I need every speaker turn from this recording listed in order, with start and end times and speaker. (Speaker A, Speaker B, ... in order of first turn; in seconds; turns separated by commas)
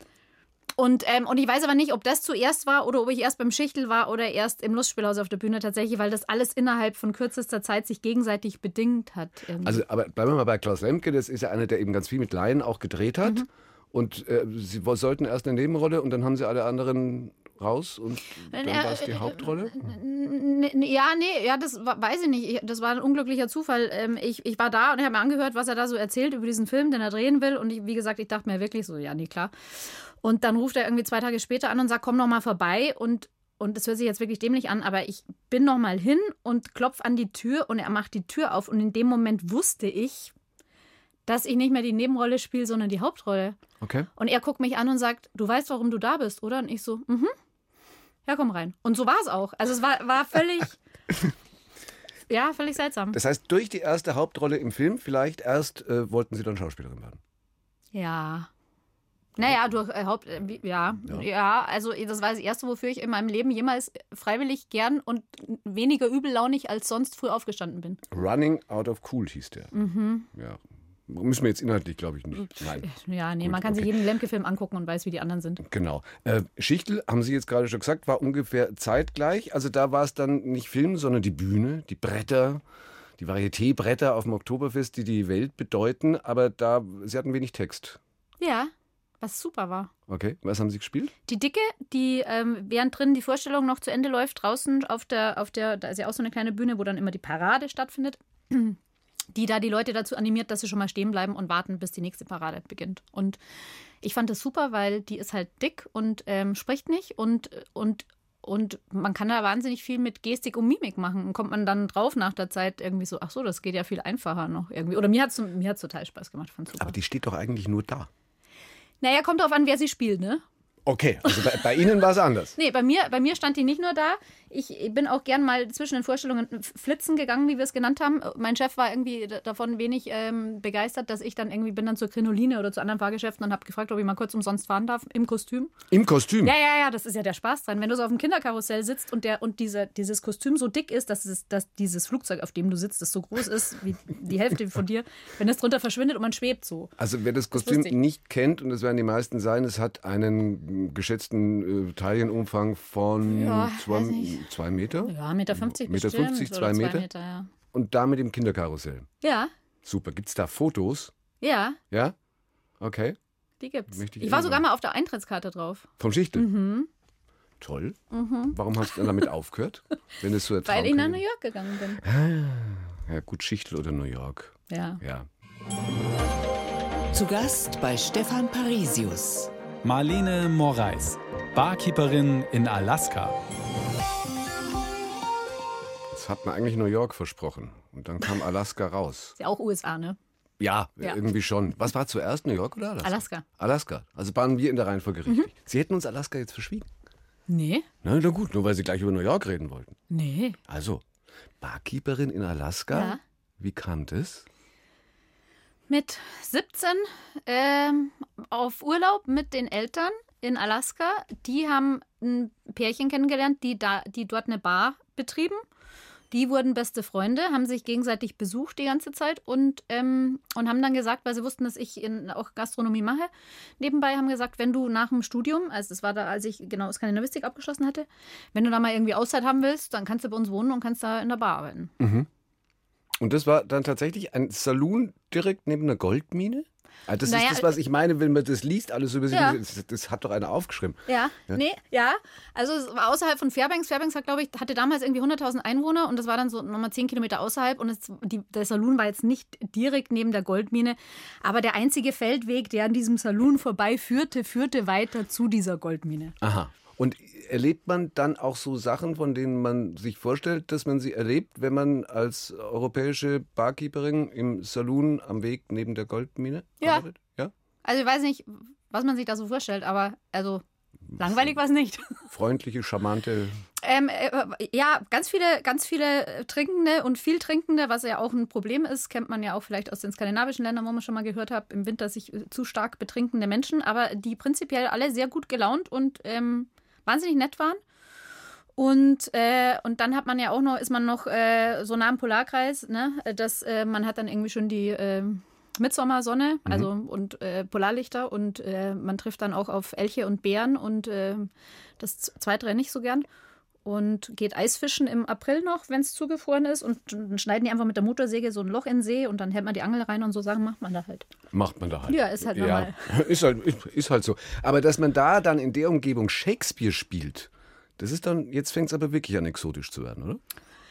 Speaker A: 0.8-9.8, Speaker B: 9.6-19.9, Speaker A: 18.5-40.3, Speaker A: 41.3-43.6, Speaker B: 43.8-44.1, Speaker A: 44.2-47.3, Speaker A: 48.3-50.8, Speaker A: 52.3-53.2, Speaker B: 53.1-57.2, Speaker A: 57.9-58.5, Speaker A: 59.4-68.0, Speaker B: 68.1-69.7, Speaker A: 69.7-70.3, Speaker B: 70.3-72.9, Speaker A: 72.6-75.6, Speaker B: 73.4-73.9, Speaker B: 75.6-82.6, Speaker B: 83.2-88.0, Speaker A: 88.4-89.9, Speaker B: 90.1-91.1, Speaker A: 91.3-98.8, Speaker A: 99.3-103.4, Speaker A: 104.0-117.0, Speaker B: 116.8-118.1, Speaker A: 119.0-120.4, Speaker B: 120.9-122.6, Speaker A: 121.3-121.9, Speaker A: 122.6-135.7, Speaker B: 135.9-136.5, Speaker A: 136.4-146.9, Speaker B: 147.0-157.1, Speaker A: 147.6-148.0, Speaker A: 153.2-154.4, Speaker A: 155.0-157.5, Speaker B: 157.7-159.1, Speaker A: 159.2-159.5, Speaker B: 159.8-161.1, Speaker A: 161.4-161.8, Speaker B: 162.8-163.2, Speaker A: 163.6-166.9, Speaker B: 163.9-164.6, Speaker B: 166.0-166.5, Speaker B: 167.6-171.2, Speaker A: 168.1-169.0, Speaker A: 170.7-172.0, Speaker B: 172.0-175.3, Speaker A: 174.7-175.0, Speaker C: 177.1-179.5, Speaker D: 179.8-183.4, Speaker B: 186.1-189.4, Speaker A: 189.4-190.2, Speaker B: 190.6-196.9, Speaker A: 193.0-193.4, Speaker A: 197.5-197.9, Speaker B: 198.0-200.0, Speaker A: 200.1-200.6, Speaker B: 200.7-201.0, Speaker B: 201.6-204.4, Speaker A: 202.9-203.2, Speaker A: 205.9-215.6, Speaker A: 216.3-231.9, Speaker B: 232.0-232.3, Speaker B: 233.2-241.6, Speaker A: 237.3-237.8, Speaker A: 239.3-239.6, Speaker A: 241.1-256.4, Speaker B: 256.4-267.5, Speaker A: 267.8-270.6, Speaker A: 271.2-272.3, Speaker B: 272.3-273.6, Speaker A: 273.8-287.8, Speaker A: 288.8-303.3, Speaker A: 303.9-311.3, Speaker B: 311.5-320.4, Speaker A: 312.1-313.2